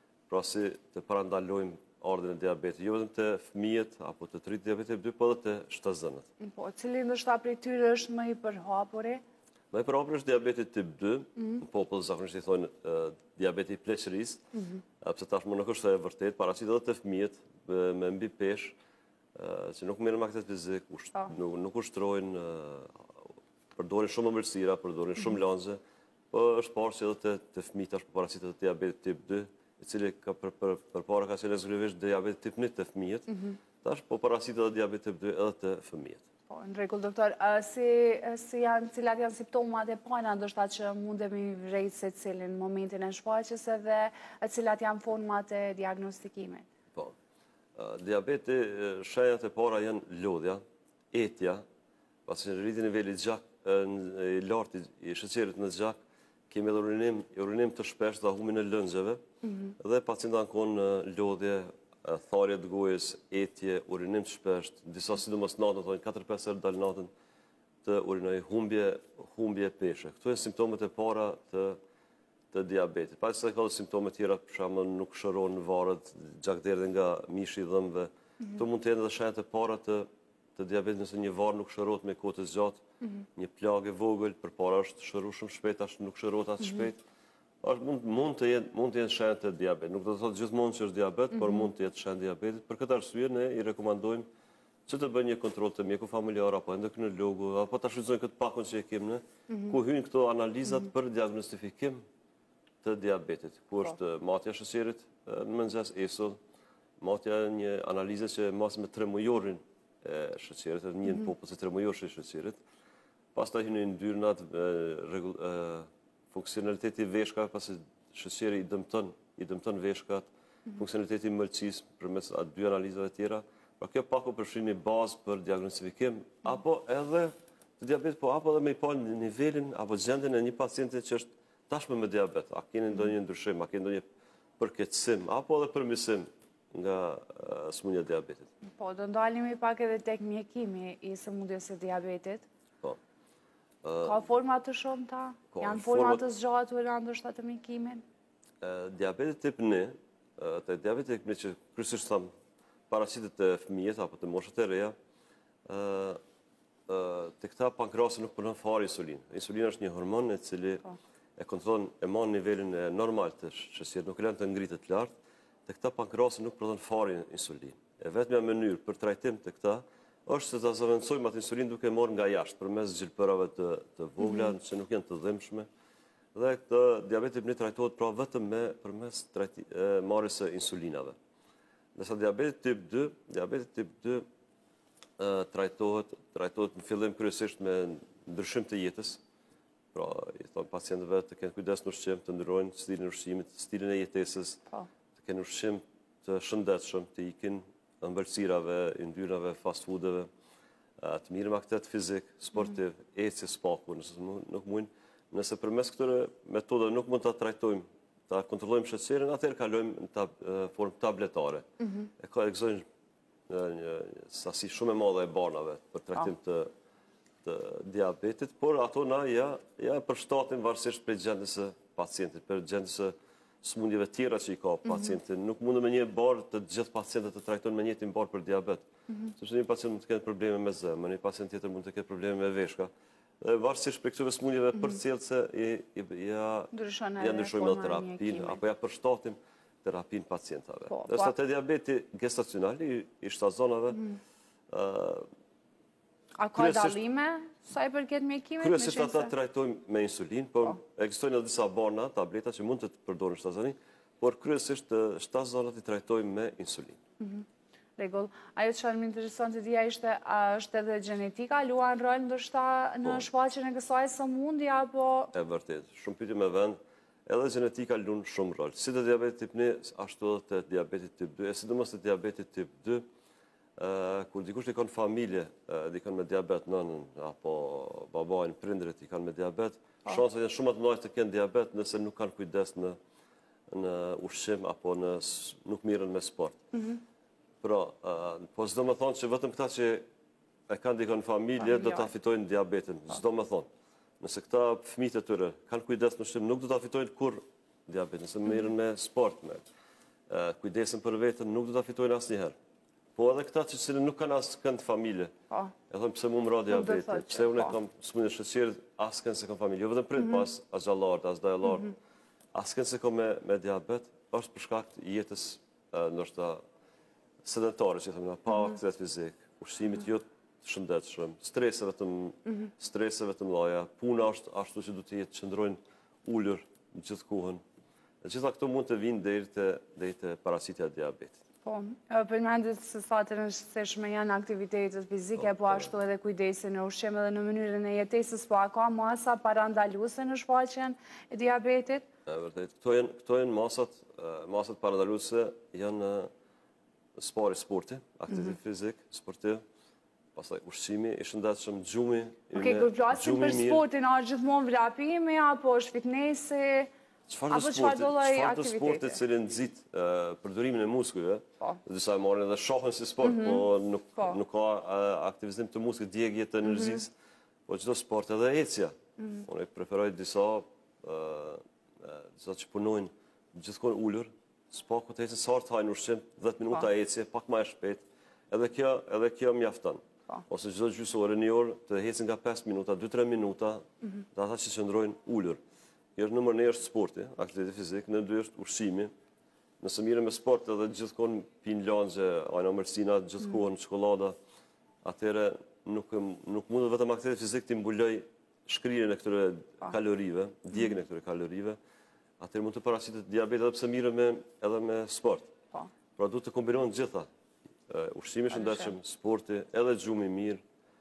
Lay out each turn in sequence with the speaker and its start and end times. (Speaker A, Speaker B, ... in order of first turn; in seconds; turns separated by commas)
Speaker A: 0.3-6.3, Speaker B: 6.4-9.2, Speaker A: 9.7-14.4, Speaker B: 14.5-14.8, Speaker A: 15.0-18.7, Speaker A: 19.3-25.8, Speaker A: 26.3-36.2, Speaker B: 36.5-46.6, Speaker A: 47.8-50.6, Speaker A: 51.1-51.6, Speaker A: 52.2-56.0, Speaker A: 56.5-59.2, Speaker A: 59.8-67.1, Speaker A: 67.8-71.8, Speaker A: 72.5-82.8, Speaker A: 83.3-87.0, Speaker A: 87.6-94.2, Speaker A: 94.9-102.0, Speaker A: 102.8-106.4, Speaker A: 107.0-112.6, Speaker A: 113.3-134.0, Speaker A: 134.6-138.5, Speaker B: 138.7-142.4, Speaker A: 143.8-144.2, Speaker B: 144.0-148.0, Speaker A: 145.5-146.2, Speaker A: 148.6-152.3, Speaker A: 152.9-154.9, Speaker A: 155.7-156.2, Speaker A: 156.9-160.8, Speaker A: 161.4-165.1, Speaker A: 165.7-175.7, Speaker B: 174.2-174.5, Speaker A: 176.3-181.1, Speaker A: 181.9-184.2, Speaker A: 185.2-189.2, Speaker A: 189.9-194.6, Speaker A: 195.2-200.3, Speaker A: 201.0-211.6, Speaker A: 212.2-212.8, Speaker A: 213.5-216.7, Speaker A: 217.4-232.9, Speaker A: 233.4-244.0, Speaker B: 236.7-238.6, Speaker B: 240.9-241.3, Speaker A: 244.7-245.2, Speaker B: 246.4-249.3, Speaker A: 246.5-247.0, Speaker A: 248.6-257.0, Speaker B: 258.0-265.3, Speaker A: 265.3-273.1, Speaker A: 273.8-283.0, Speaker A: 283.7-286.6, Speaker A: 287.6-290.0, Speaker A: 290.7-293.7, Speaker B: 291.8-292.1, Speaker A: 294.2-299.6, Speaker A: 300.3-302.5, Speaker A: 303.1-305.3, Speaker A: 305.9-311.9, Speaker B: 306.7-307.7, Speaker A: 312.5-316.6, Speaker A: 317.4-327.6, Speaker A: 328.2-331.4, Speaker B: 331.6-342.1, Speaker A: 335.4-335.9, Speaker A: 342.2-346.3, Speaker A: 347.2-349.6, Speaker A: 350.3-353.8, Speaker B: 352.5-356.9, Speaker A: 357.3-367.1, Speaker B: 357.5-359.2, Speaker B: 363.2-363.6, Speaker B: 366.7-367.0, Speaker A: 367.7-385.6, Speaker A: 386.1-389.1, Speaker A: 389.8-394.4, Speaker A: 395.0-401.8, Speaker A: 402.4-405.5, Speaker A: 406.2-407.3, Speaker A: 407.9-410.6, Speaker B: 408.6-408.9